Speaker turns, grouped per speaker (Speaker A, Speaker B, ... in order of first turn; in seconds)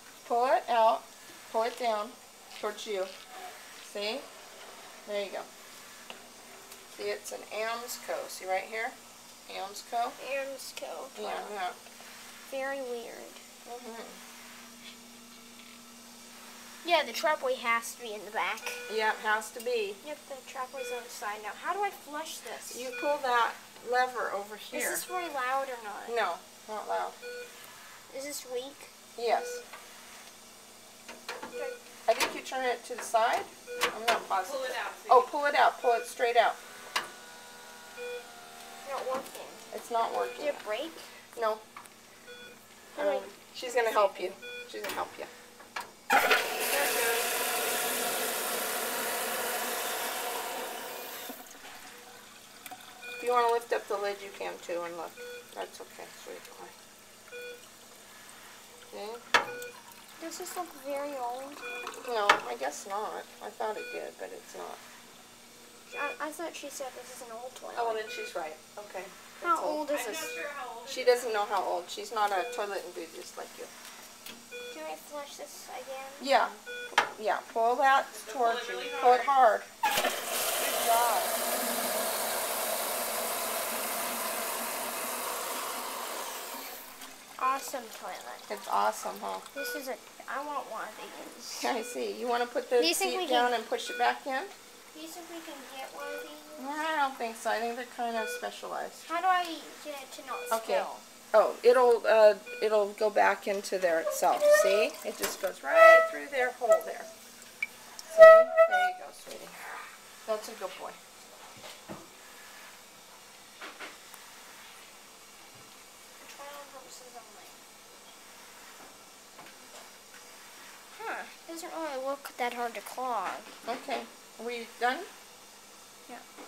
Speaker A: 0.2-3.1, 3.8-4.2, 5.0-5.5, 6.9-10.2, 11.2-11.8, 13.7-14.2, 18.9-20.0, 22.7-25.1, 26.1-27.1, 29.1-29.6, 32.0-36.6, 39.7-40.6, 41.3-41.6, 42.9-45.3, 53.2-56.7, 58.9-59.2, 62.0-64.8, 67.7-69.8, 70.9-73.7, 76.2-79.7, 80.5-81.3, 88.5-89.4, 91.6-94.5, 96.6-99.0, 100.5-107.1, 108.1-109.5, 110.2-111.0, 123.6-125.1
Speaker B: 10.2-11.5, 12.5-13.4, 16.8-18.8, 20.0-22.9, 24.7-26.2, 28.1-28.9, 38.8-39.7, 40.4-41.1, 42.9-43.3, 60.2-61.6, 65.9-68.0, 69.4-70.3, 74.7-76.3, 87.4-88.5, 89.5-91.7, 92.8-93.5, 94.9-96.8, 99.0-101.0, 116.2-117.6, 120.9-123.5
Speaker C: 34.3-35.3, 46.7-47.3, 69.8-71.5, 78.1-79.3